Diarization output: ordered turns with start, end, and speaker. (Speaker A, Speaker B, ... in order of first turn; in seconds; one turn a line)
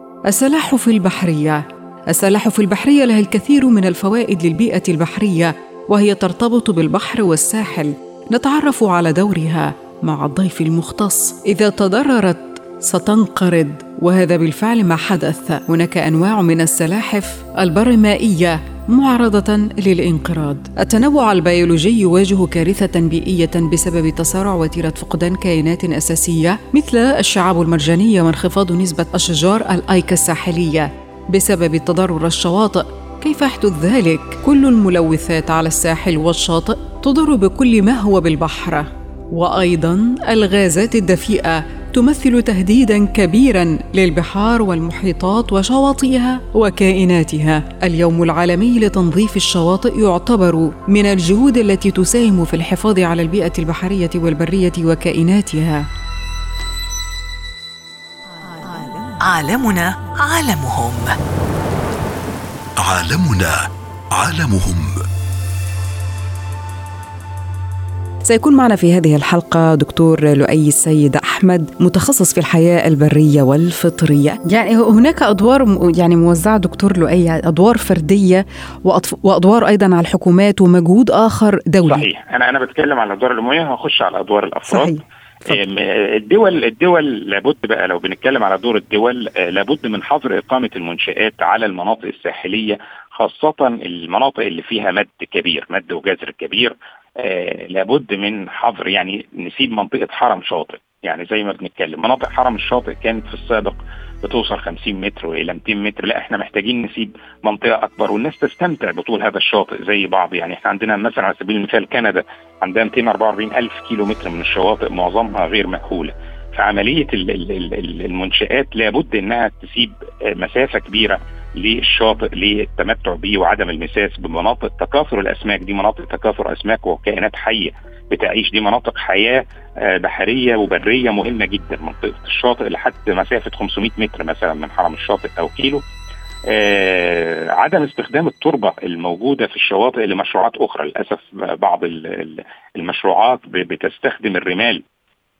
Speaker A: 0.3-55.9
Speaker B: 59.2-61.1
Speaker C: 62.8-65.0
Speaker A: 68.2-82.0
Speaker D: 81.8-135.8
Speaker A: 84.7-85.5
Speaker D: 136.5-144.8